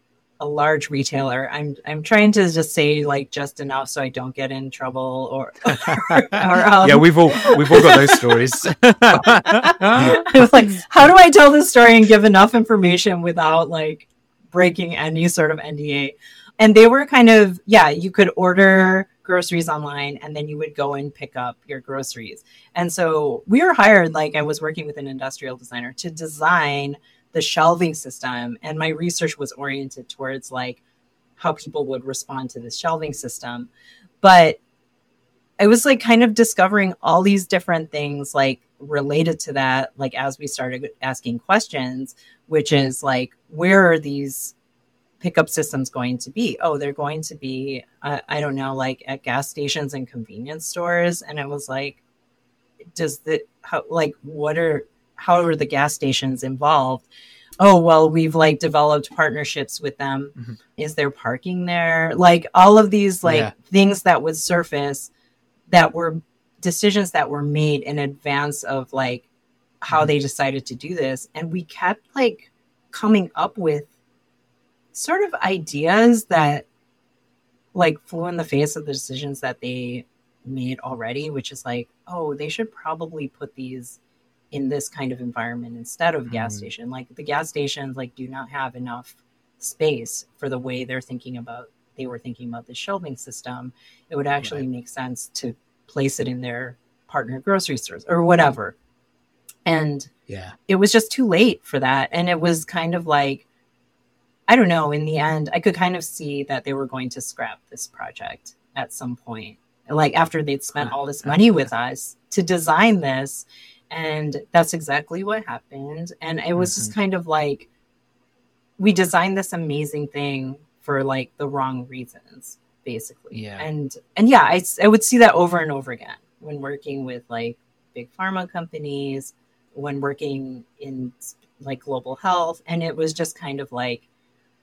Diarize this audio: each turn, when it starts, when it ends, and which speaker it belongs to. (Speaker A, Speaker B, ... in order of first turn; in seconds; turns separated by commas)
Speaker A: 0.4-8.3, Speaker B: 5.8-10.4, Speaker A: 9.3-30.8, Speaker A: 31.4-33.7, Speaker A: 34.2-34.6, Speaker A: 35.6-44.5, Speaker A: 45.2-52.0, Speaker A: 53.0-57.1, Speaker A: 57.6-65.1, Speaker B: 63.2-63.5, Speaker A: 65.7-69.3, Speaker A: 69.8-73.9, Speaker A: 74.9-76.7, Speaker A: 77.7-84.0, Speaker A: 84.5-98.8, Speaker B: 86.3-86.7, Speaker A: 99.7-100.1, Speaker B: 100.3-100.6, Speaker A: 100.7-103.5, Speaker A: 104.5-117.7, Speaker B: 110.8-111.3, Speaker B: 116.6-116.9, Speaker A: 118.8-134.0, Speaker B: 123.3-123.7